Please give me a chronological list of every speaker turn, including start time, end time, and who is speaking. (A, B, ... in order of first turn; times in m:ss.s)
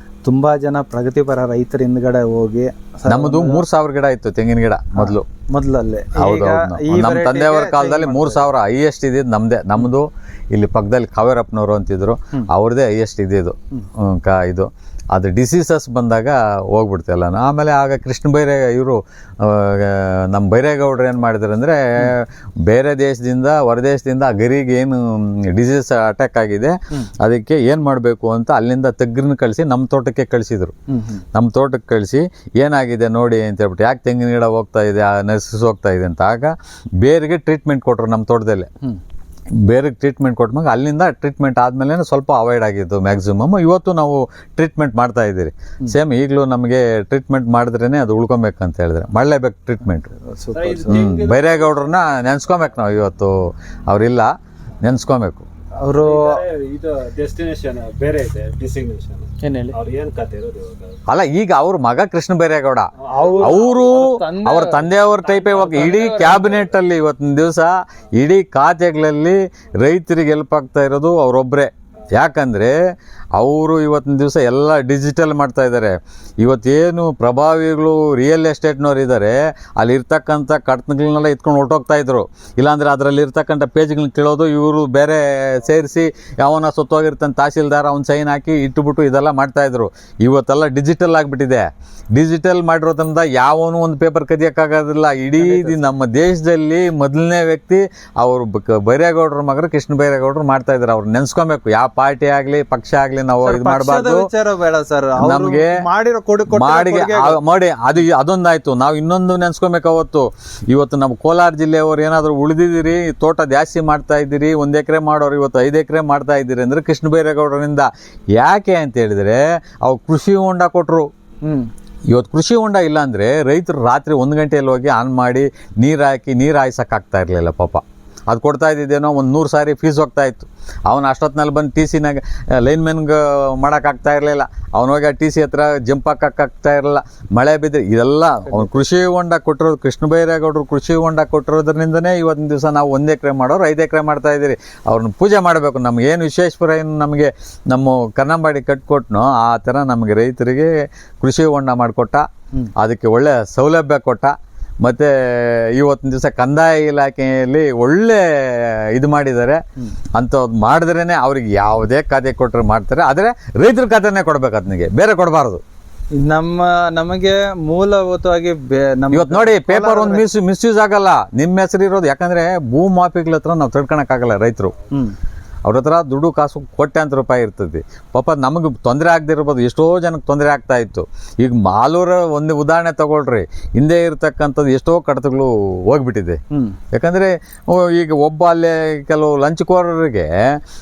0:00.2-0:03.6 A
0:03.1-0:05.2 B
0:04.9-0:08.5 A
0:06.2-0:30.7 B
0:30.9-0:31.2 A
0:31.3-0:38.7 B
0:39.6-0:50.1 B
0:50.2-0:51.1 A
0:50.5-0:51.8 C
0:50.9-0:53.4 B
0:53.9-0:54.3 B
0:54.8-0:55.4 B
0:55.8-0:56.4 A
0:55.9-1:01.0 C
0:59.4-0:59.8 A
1:01.1-1:12.8 B
1:03.1-1:04.9 A
1:03.1-1:03.7 C
1:05.2-1:06.7 C
1:13.3-1:44.3 B
1:35.4-1:35.8 A
1:43.4-1:47.4 A
1:45.2-1:45.8 B
1:46.5-2:01.1 B
2:01.4-2:01.7 A
2:02.1-2:39.6 B
2:18.5-2:18.7 A
2:40.1-2:45.6 B
2:46.1-2:50.2 A
2:49.1-2:54.7 B
2:55.6-3:06.4 B
3:06.5-3:06.8 A
3:06.9-3:10.6 B